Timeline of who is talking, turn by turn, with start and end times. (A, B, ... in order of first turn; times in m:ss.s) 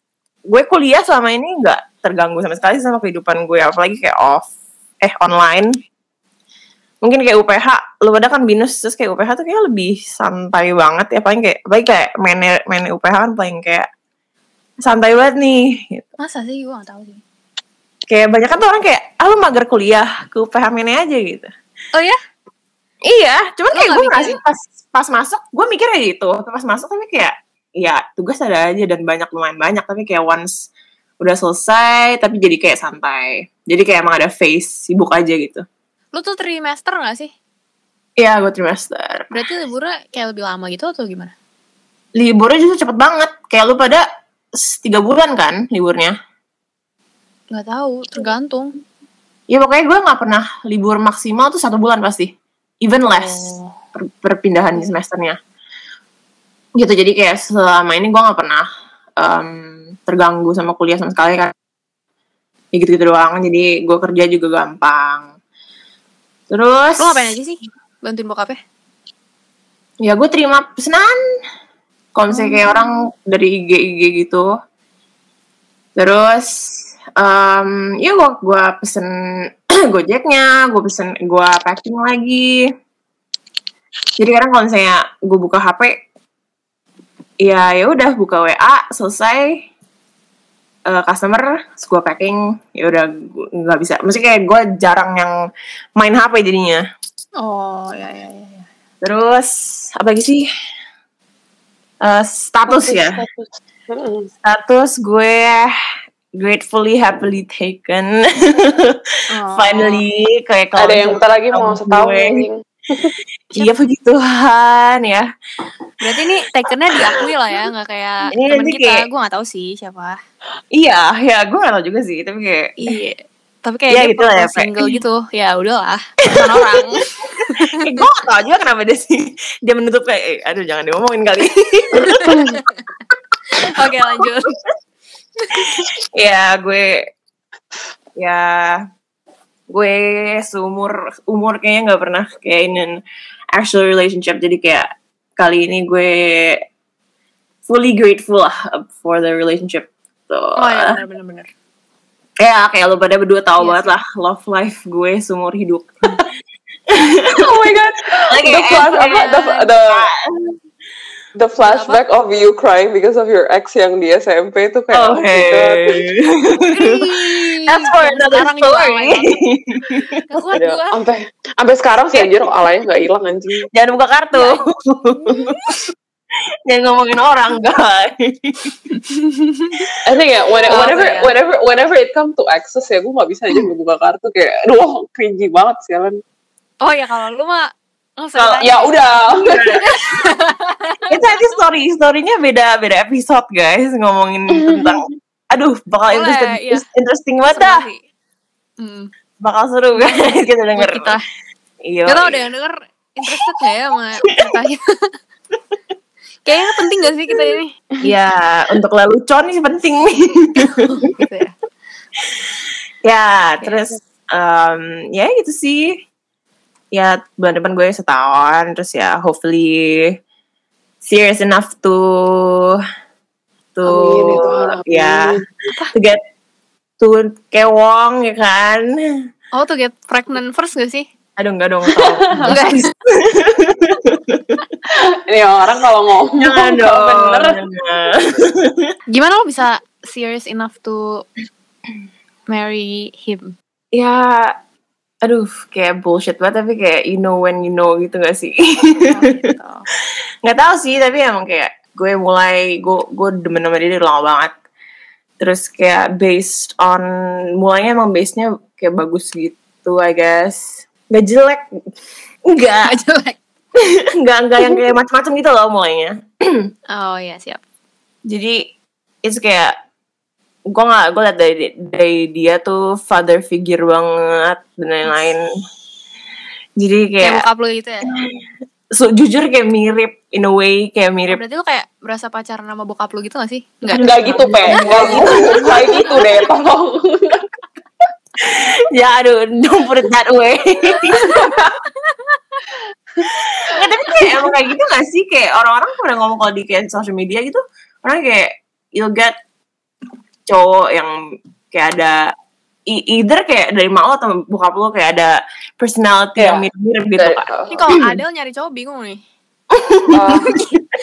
0:00.5-0:04.5 A
0:05.0-0:05.7 A
0:07.0-0:13.9 A
0:14.8-0:16.1 A
0:16.2-0:17.2 B
0:18.1-0:21.5 A
0:23.1-0:30.7 A
0:23.7-0:24.4 B
0:31.2-0:35.6 A
0:36.1-0:37.3 B
0:38.2-0:39.3 A
0:39.3-0:41.3 B
0:42.2-0:46.2 A
0:47.5-0:48.8 B
0:49.5-0:55.4 A
0:53.1-0:53.7 B
0:56.8-0:58.7 A
0:59.2-1:01.5 A
1:02.7-1:05.3 A
1:06.5-1:07.4 A
1:07.0-1:08.6 B
1:10.0-1:11.2 A
1:12.2-1:14.5 A
1:12.3-1:12.9 B
1:16.0-1:22.7 A
1:24.2-1:26.0 A
1:27.4-1:29.6 A
1:30.9-1:35.3 A
1:36.0-1:36.8 A
1:37.4-1:38.6 B
1:39.0-1:40.5 A
1:42.0-1:43.2 A
1:42.7-1:44.3 C
1:44.4-1:45.7 A
1:46.4-1:52.5 A
1:49.3-1:50.0 B
1:50.8-1:53.1 C
1:53.5-1:55.3 A
1:56.0-2:00.2 B
1:56.9-1:57.3 A
1:58.3-1:59.1 A
2:00.7-2:03.0 A
2:02.8-2:08.1 B
2:03.9-2:05.0 A
2:06.3-2:06.9 A
2:07.4-2:12.4 A
2:12.1-2:12.8 B
2:12.3-2:12.6 C
2:13.5-2:14.5 B
2:13.6-2:14.3 A
2:15.4-2:15.8 B
2:15.5-2:17.0 A
2:18.2-2:18.8 A
2:19.7-2:23.0 A
2:23.5-2:26.6 A
2:27.7-2:31.0 A
2:30.6-2:31.5 B
2:32.4-2:36.2 A
2:33.6-2:33.9 B
2:36.9-2:37.5 A
2:37.3-2:40.1 C
2:38.3-2:39.4 A
2:39.0-2:39.7 B
2:39.9-2:40.6 A
2:41.4-2:46.0 C
2:41.6-2:42.0 B
2:44.9-2:50.5 A
2:46.7-2:49.4 B
2:50.3-2:51.0 B
2:50.6-2:53.7 C
2:53.7-2:55.8 A
2:54.3-2:54.6 B
2:55.2-2:55.6 B
2:56.7-2:59.0 A
2:59.1-2:59.9 B
3:00.0-3:06.2 C
3:00.7-3:01.1 A
3:00.7-3:01.3 B
3:06.8-3:09.0 B
3:08.4-3:08.7 A
3:08.6-3:09.8 C
3:09.3-3:10.3 A
3:09.8-3:11.2 B
3:11.1-3:17.8 A
3:16.1-3:16.8 B
3:17.4-3:18.0 B
3:18.8-3:19.1 B
3:19.4-3:21.2 A
3:20.0-3:21.2 B
3:21.8-3:22.4 A
3:22.1-3:25.1 B
3:26.4-3:27.9 B
3:27.3-3:31.1 A
3:30.6-3:31.5 B
3:33.0-3:36.0 A
3:36.9-3:40.1 A
3:41.0-3:42.8 A
3:43.8-3:45.4 A
3:43.9-3:45.4 C
3:45.9-3:46.2 A
3:47.0-3:49.0 A
3:49.5-3:51.1 B
3:51.4-3:54.6 A
3:52.2-3:52.6 C
3:52.5-3:52.9 B
3:54.9-3:57.6 C
3:56.4-3:58.9 A
3:59.1-4:01.3 B
4:02.5-4:03.6 B
4:03.9-4:04.5 A
4:05.2-4:09.4 A
4:09.1-4:09.9 B
4:10.4-4:14.5 A
4:15.4-4:17.1 A
4:17.6-4:21.6 A
4:22.5-4:23.0 A
4:22.8-4:23.4 B
4:23.8-4:26.7 A
4:26.9-4:27.6 B
4:28.3-4:28.6 A
4:29.2-4:29.7 A
4:30.7-4:35.4 A
4:36.8-4:37.4 A
4:37.2-4:38.1 B
4:38.1-4:38.4 A
4:39.0-4:41.4 A
4:41.3-4:46.2 B
4:43.9-4:46.3 A
4:44.0-4:47.4 C
4:48.4-4:51.6 A
4:51.2-4:51.6 C
4:52.0-4:52.4 B
4:53.2-4:59.3 A
5:00.5-5:01.2 A
5:01.7-5:02.3 A
5:02.9-5:08.2 A
5:06.4-5:06.7 C
5:07.2-5:07.8 C
5:07.7-5:09.2 B
5:09.7-5:10.8 A
5:10.1-5:10.6 C